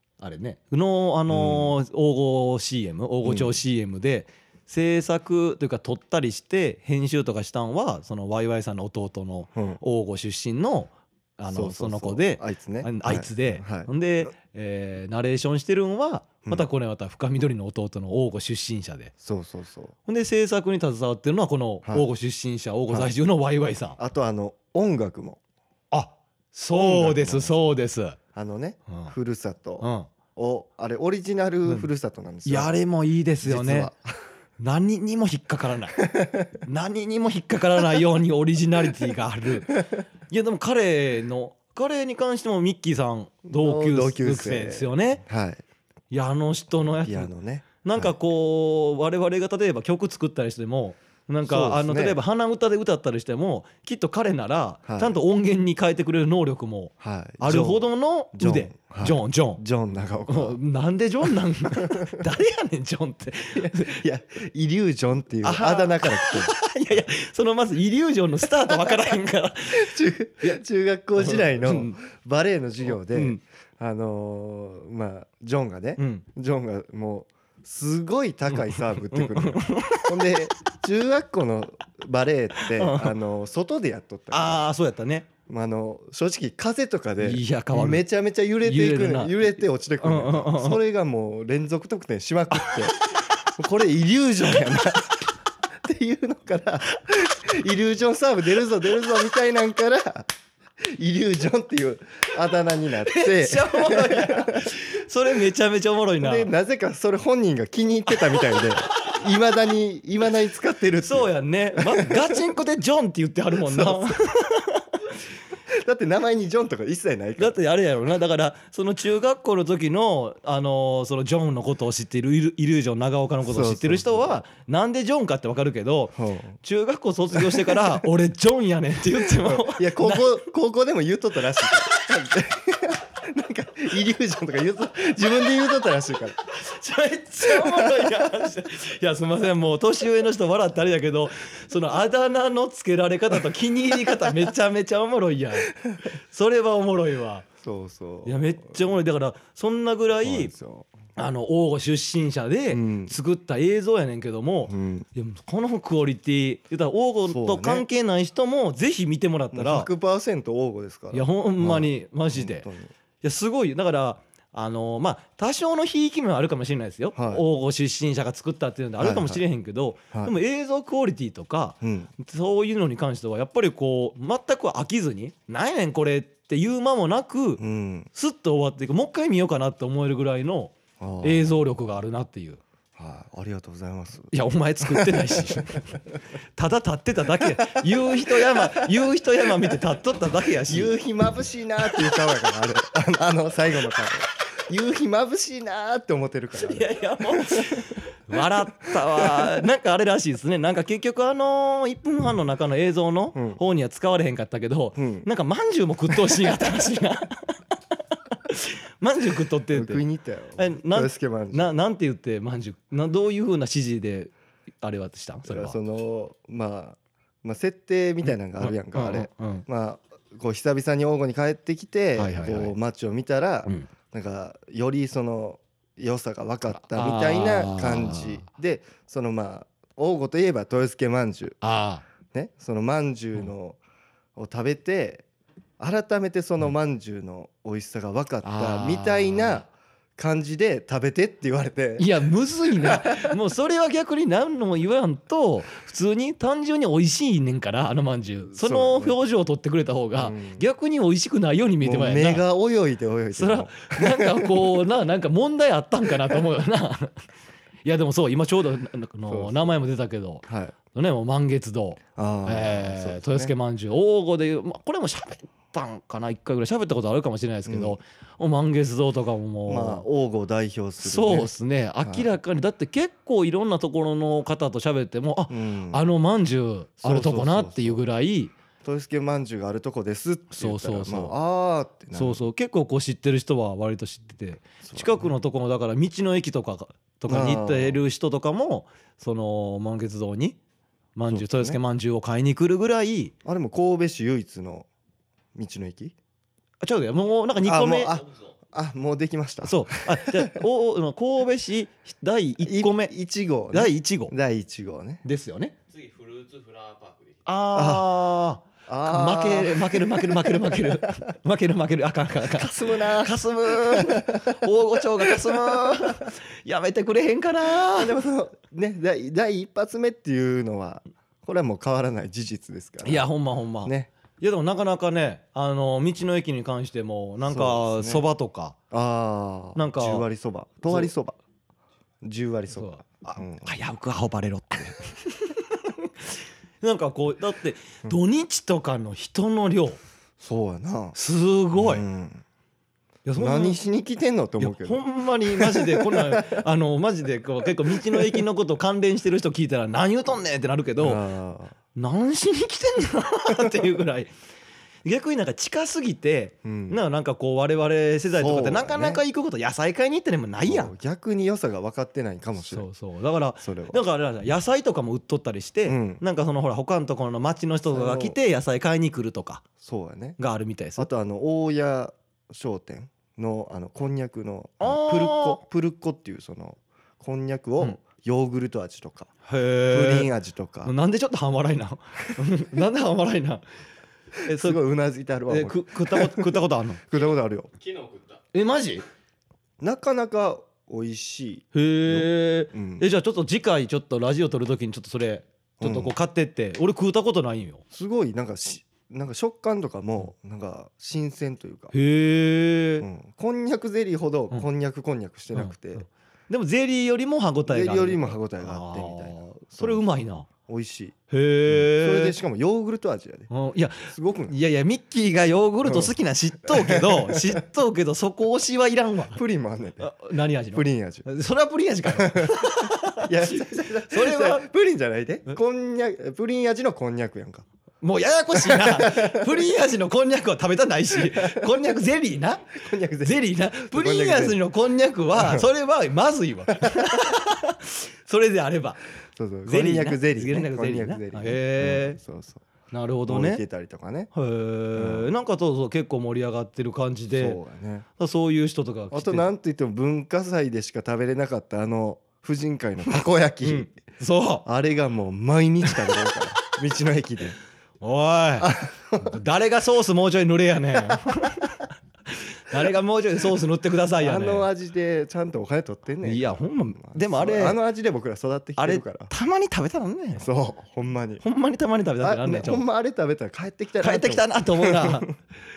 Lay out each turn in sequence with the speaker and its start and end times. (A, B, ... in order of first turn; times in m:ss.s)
0:00.2-0:19.1 A
0:01.3-0:01.7 B
0:03.2-0:03.6 B
0:09.5-0:09.8 B
0:11.5-0:13.9 B
0:19.2-0:19.9 B
0:20.0-0:24.0 A
0:24.0-0:25.4 B
0:25.9-0:28.2 A
0:26.7-0:27.7 B
0:28.3-0:32.7 B
0:29.8-0:30.1 A
0:32.4-0:33.9 A
0:33.4-0:34.2 B
0:34.6-0:36.0 A
0:36.1-0:36.5 B
0:36.6-0:45.2 A
0:43.5-0:45.6 B
0:46.1-0:47.3 A
0:47.0-0:48.1 B
0:47.8-0:59.6 A
0:51.4-0:52.2 B
0:54.9-0:55.2 B
0:57.0-1:00.6 B
1:00.3-1:04.0 A
1:01.8-1:02.1 B
1:03.5-1:06.5 B
1:05.4-1:10.6 A
1:08.6-1:09.2 B
1:09.7-1:24.6 B
1:11.2-1:12.0 A
1:12.8-1:13.4 A
1:16.0-1:16.2 A
1:18.5-1:20.2 A
1:22.6-1:23.1 A
1:24.3-1:25.3 A
1:25.5-1:33.0 B
1:27.2-1:28.0 A
1:28.6-1:30.8 A
1:33.6-1:35.2 B
1:35.8-1:40.3 B
1:40.8-1:44.7 B
1:43.1-1:46.5 A
1:46.2-1:52.4 B
1:51.0-1:54.8 A
1:53.6-1:54.1 B
1:55.7-1:57.6 B
1:57.4-2:10.3 A
2:03.4-2:04.4 B
2:06.2-2:06.6 B
2:07.3-2:08.0 B
2:09.2-2:16.4 B
2:16.5-2:25.8 A
2:17.4-2:18.2 B
2:26.3-2:27.5 A
2:27.6-2:28.8 B
2:28.2-2:30.5 A
2:30.2-2:30.9 B
2:31.1-2:39.9 A
2:32.7-2:33.1 B
2:34.7-2:35.0 B
2:37.3-2:37.8 B
2:39.5-2:42.9 B
2:41.1-2:42.7 A
2:43.2-2:57.6 A
2:47.2-2:47.4 B
2:49.0-2:49.4 B
2:51.8-2:52.1 B
2:57.6-2:58.1 B
2:58.1-3:02.6 A
3:01.0-3:01.6 B
3:03.0-3:06.0 B
3:04.3-3:06.0 A
3:06.6-3:11.0 A
3:07.4-3:08.9 B
3:09.4-3:09.7 B
3:10.7-3:17.9 B
3:16.6-3:27.6 A
3:18.9-3:19.6 B
3:23.3-3:23.6 B
3:25.0-3:25.3 B
3:26.1-3:26.3 B
3:28.3-3:30.0 A
3:29.7-3:31.7 B
3:30.6-3:35.8 A
3:35.4-3:51.6 B
3:38.3-3:39.6 A
3:42.2-3:42.7 A
3:46.7-3:48.5 A
3:51.6-3:52.0 A
3:52.3-3:53.8 B
3:54.4-3:55.2 B
3:55.8-4:02.1 B
3:58.4-3:59.6 A
4:02.0-4:12.4 A
4:02.8-4:03.3 B
4:08.5-4:09.2 B
4:10.2-4:10.6 B
4:11.8-4:14.7 B
4:13.3-4:17.2 A
4:17.8-4:30.0 A
4:19.3-4:19.8 B
4:20.4-4:20.7 B
4:22.2-4:23.5 B
4:27.6-4:28.0 B
4:29.7-4:31.5 B
4:31.0-4:38.5 A
4:35.5-4:36.0 B
4:37.0-4:38.0 B
4:38.8-4:42.4 B
4:40.5-4:41.3 A
4:42.1-4:50.6 A
4:44.8-4:45.3 B
4:47.3-4:48.0 B
4:51.2-4:53.3 A
4:51.3-4:51.8 B
4:53.4-4:54.9 B
4:55.5-4:56.1 B
4:56.8-4:58.2 A
4:57.6-5:00.6 B
4:58.2-4:58.5 C
4:59.6-5:03.1 A
5:02.6-5:05.2 B
5:03.7-5:04.3 A
5:05.2-5:05.7 A
5:05.9-5:07.4 C
5:07.4-5:18.2 A
5:07.7-5:08.1 B
5:08.9-5:11.2 B
5:12.5-5:16.3 B
5:17.8-5:23.3 B
5:23.0-5:28.8 A
5:23.8-5:24.1 B
5:27.5-5:28.2 B
5:28.9-5:31.4 B
5:29.8-5:30.3 A
5:30.9-5:31.1 A
5:32.2-5:33.7 B
5:32.7-5:36.1 A
5:36.8-5:40.0 A
5:40.4-5:41.2 B
5:41.1-5:42.0 A
5:41.7-5:42.4 B
5:43.2-5:43.8 A
5:43.4-5:46.6 B
5:44.6-5:51.2 A
5:47.9-5:48.4 B
5:51.0-5:51.7 B
5:51.9-5:54.3 A
5:55.0-6:00.9 A
5:56.6-5:57.0 B
5:58.3-5:59.2 B
6:00.6-6:02.8 B
6:02.6-6:09.6 A
6:03.6-6:04.0 B
6:05.9-6:06.2 B
6:07.9-6:08.4 B
6:09.8-6:10.4 B
6:10.4-6:11.1 A
6:11.0-6:19.3 B
6:14.8-6:15.6 A
6:19.4-6:20.3 A
6:19.9-6:20.9 B
6:20.8-6:23.6 A
6:24.4-6:24.8 A
6:24.5-6:27.7 B
6:25.5-6:27.0 A
6:27.8-6:28.4 C
6:28.5-6:29.0 A
6:29.8-6:33.0 B
6:31.7-6:37.8 A
6:35.8-6:36.1 B
6:37.9-6:41.9 B
6:41.9-6:43.1 A
6:43.0-6:46.0 B
6:45.5-6:50.5 A
6:47.7-6:50.0 B
6:50.6-6:51.2 B
6:51.3-6:52.4 A
6:51.7-6:53.5 B
6:53.5-6:59.4 A
6:54.1-6:54.5 B
6:55.8-6:56.1 B
6:56.6-6:57.6 B
6:59.3-7:00.1 B
7:00.0-7:04.6 A
7:00.7-7:01.2 B
7:02.1-7:07.6 B
7:08.0-7:19.0 A
7:08.5-7:09.6 B
7:11.1-7:11.9 B
7:12.7-7:14.6 B
7:15.3-7:15.7 B
7:16.8-7:17.2 B
7:19.4-7:22.6 B
7:19.6-7:22.2 A
7:22.9-7:23.6 A
7:23.3-7:24.3 B
7:24.3-7:27.6 A
7:24.9-7:25.3 B
7:27.3-7:28.1 B
7:28.2-7:29.5 A
7:29.1-7:33.9 B
7:33.6-7:34.6 A
7:34.6-7:37.6 B
7:38.0-7:44.7 A
7:38.6-7:39.4 B
7:44.2-7:49.3 B
7:46.2-7:47.8 A
7:48.8-7:50.4 A
7:50.4-7:51.4 B
7:51.4-7:52.8 A
7:52.2-7:55.3 B
7:54.0-7:55.3 A